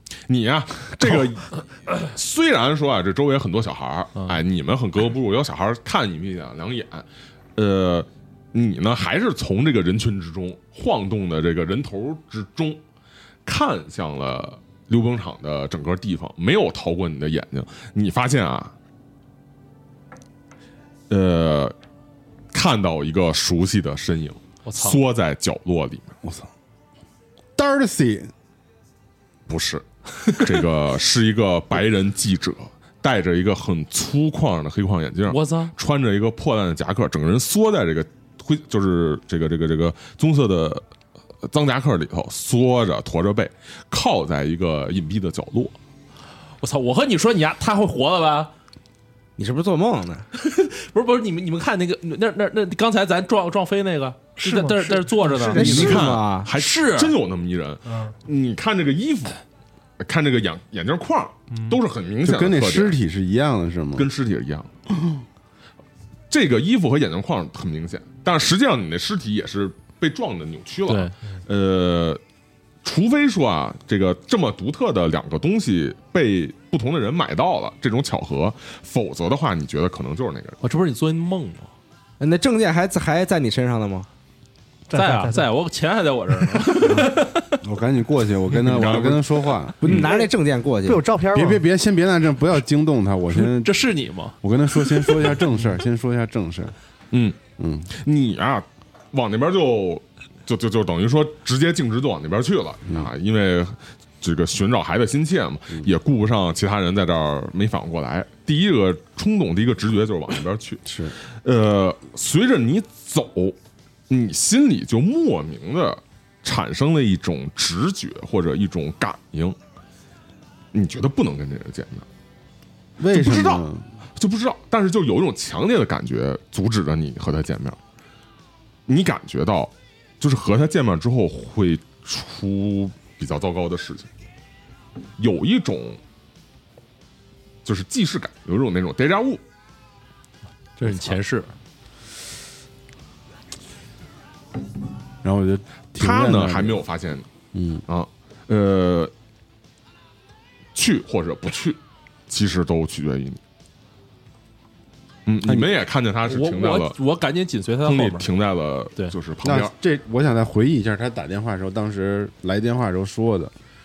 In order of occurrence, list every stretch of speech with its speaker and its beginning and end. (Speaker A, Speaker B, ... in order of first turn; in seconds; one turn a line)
Speaker A: 0.3-12.8
Speaker A: 13.5-18.7
Speaker A: 21.1-21.8
Speaker A: 22.5-26.1
Speaker B: 24.7-25.0
Speaker C: 26.2-26.5
Speaker C: 27.6-28.3
Speaker A: 29.5-40.8
Speaker B: 35.3-35.8
Speaker A: 41.4-45.8
Speaker B: 46.6-48.5
Speaker D: 49.4-50.3
Speaker B: 50.3-57.2
Speaker E: 54.4-55.7
Speaker D: 55.4-56.5
Speaker A: 55.6-59.4
Speaker E: 57.9-58.1
Speaker A: 60.0-63.0
Speaker E: 61.5-61.8
Speaker C: 62.2-64.1
Speaker A: 64.0-64.7
Speaker A: 66.3-72.2
Speaker B: 70.9-71.1
Speaker A: 72.8-80.6
Speaker B: 80.6-81.7
Speaker D: 82.2-84.1
Speaker E: 84.9-85.5
Speaker B: 84.9-87.6
Speaker E: 86.8-87.1
Speaker C: 87.6-90.1
Speaker A: 88.6-90.0
Speaker D: 89.8-91.1
Speaker E: 90.9-91.6
Speaker C: 91.3-93.7
Speaker B: 93.3-95.3
Speaker C: 94.4-96.7
Speaker A: 97.1-97.4
Speaker C: 97.6-97.9
Speaker A: 97.9-110.8
Speaker C: 110.8-111.1
Speaker A: 111.4-113.6
Speaker A: 114.1-119.6
Speaker A: 120.7-122.0
Speaker C: 123.0-123.9
Speaker A: 123.1-123.6
Speaker A: 124.2-127.8
Speaker A: 128.9-134.1
Speaker A: 135.2-136.0
Speaker A: 137.6-139.4
Speaker B: 140.8-141.5
Speaker A: 140.9-141.2
Speaker C: 145.2-146.8
Speaker A: 146.0-147.3
Speaker C: 147.5-147.8
Speaker A: 147.9-149.1
Speaker A: 150.8-153.4
Speaker A: 155.3-157.0
Speaker C: 155.4-155.7
Speaker B: 156.3-158.3
Speaker A: 157.8-159.7
Speaker C: 159.4-163.5